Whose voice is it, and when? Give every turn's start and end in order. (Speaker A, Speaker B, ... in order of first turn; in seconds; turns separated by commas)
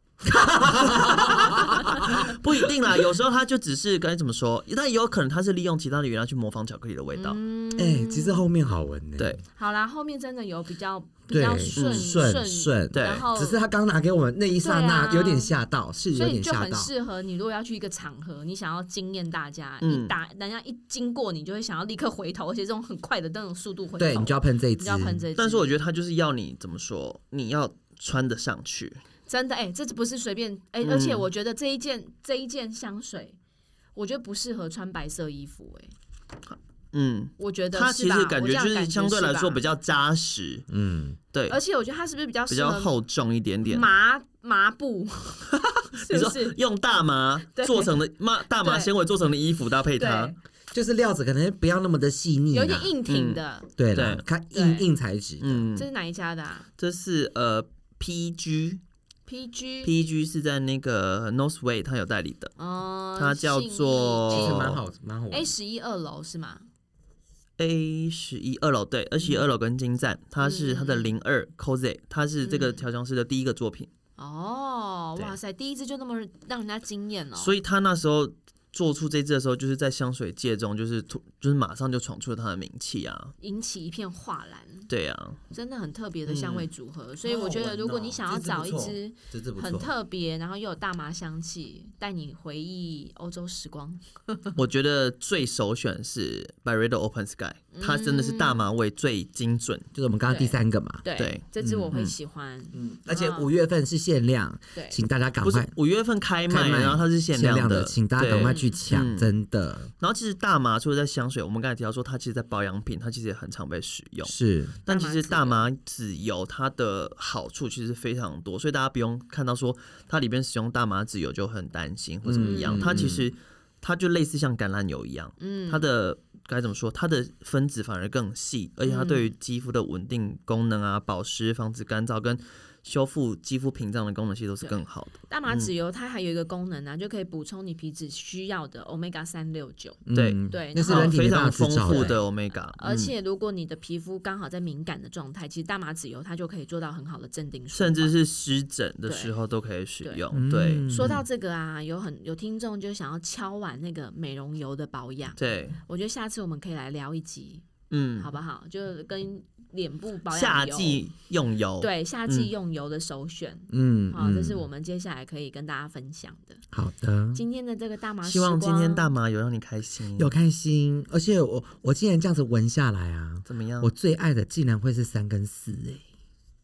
Speaker A: 0.2-2.3, Speaker B: 0.4-2.2, Speaker C: 1.3-7.4, Speaker B: 7.2-8.4, Speaker A: 7.8-9.4, Speaker B: 9.6-13.6, Speaker A: 11.3-16.9, Speaker C: 11.7-12.2, Speaker C: 12.9-13.2, Speaker B: 14.6-15.5, Speaker B: 16.1-25.7, Speaker C: 19.8-20.1, Speaker A: 24.0-25.2, Speaker C: 25.4-29.0, Speaker B: 29.3-33.4, Speaker C: 30.8-31.3, Speaker B: 33.9-35.9, Speaker C: 36.5-40.6, Speaker B: 37.4-39.6, Speaker A: 40.7-41.2, Speaker C: 41.3-41.6, Speaker B: 41.5-42.9, Speaker C: 42.5-43.9, Speaker B: 43.6-46.6, Speaker C: 45.5-50.3, Speaker B: 47.5-47.9, Speaker B: 48.5-48.9, Speaker B: 50.0-50.4, Speaker A: 50.7-52.9, Speaker B: 52.5-53.7, Speaker C: 53.1-53.4, Speaker A: 53.8-55.7, Speaker C: 53.9-54.2, Speaker B: 54.5-54.9, Speaker C: 55.4-55.9, Speaker B: 55.8-56.7, Speaker C: 56.8-58.8, Speaker B: 59.3-59.9, Speaker C: 59.8-62.5, Speaker B: 62.6-64.8, Speaker C: 63.2-64.8, Speaker A: 64.3-65.5, Speaker B: 65.3-66.6, Speaker C: 67.6-73.9, Speaker B: 70.4-71.1, Speaker B: 72.4-72.8, Speaker B: 74.2-77.5, Speaker C: 77.3-83.3, Speaker B: 83.4-84.9, Speaker C: 84.9-85.4, Speaker B: 85.5-94.5, Speaker C: 86.3-86.7, Speaker A: 87.2-89.9, Speaker C: 94.5-99.8, Speaker B: 97.7-98.7, Speaker A: 99.9-101.0, Speaker B: 100.3-103.5, Speaker C: 101.2-102.1, Speaker A: 101.6-101.9, Speaker A: 102.7-105.7, Speaker B: 104.7-105.0, Speaker C: 105.4-109.3, Speaker A: 106.5-109.9, Speaker B: 108.3-108.8, Speaker C: 110.0-135.7, Speaker A: 114.2-114.8, Speaker B: 114.9-115.6, Speaker A: 122.2-123.2, Speaker B: 122.4-123.2, Speaker B: 125.4-125.8, Speaker B: 128.8-129.3, Speaker B: 134.6-141.2, Speaker A: 140.1-142.2, Speaker C: 140.1-143.1, Speaker B: 141.8-148.1, Speaker C: 147.7-151.2, Speaker B: 149.1-149.3, Speaker A: 150.3-151.2, Speaker B: 150.8-157.7, Speaker C: 155.4-155.8, Speaker C: 157.9-158.3, Speaker B: 158.2-161.0, Speaker C: 160.3-162.5, Speaker B: 161.8-166.6, Speaker A: 163.7-164.7, Speaker A: 166.7-167.4, Speaker B: 167.3-169.1, Speaker C: 168.2-170.3, Speaker A: 170.2-176.0, Speaker C: 173.5-173.9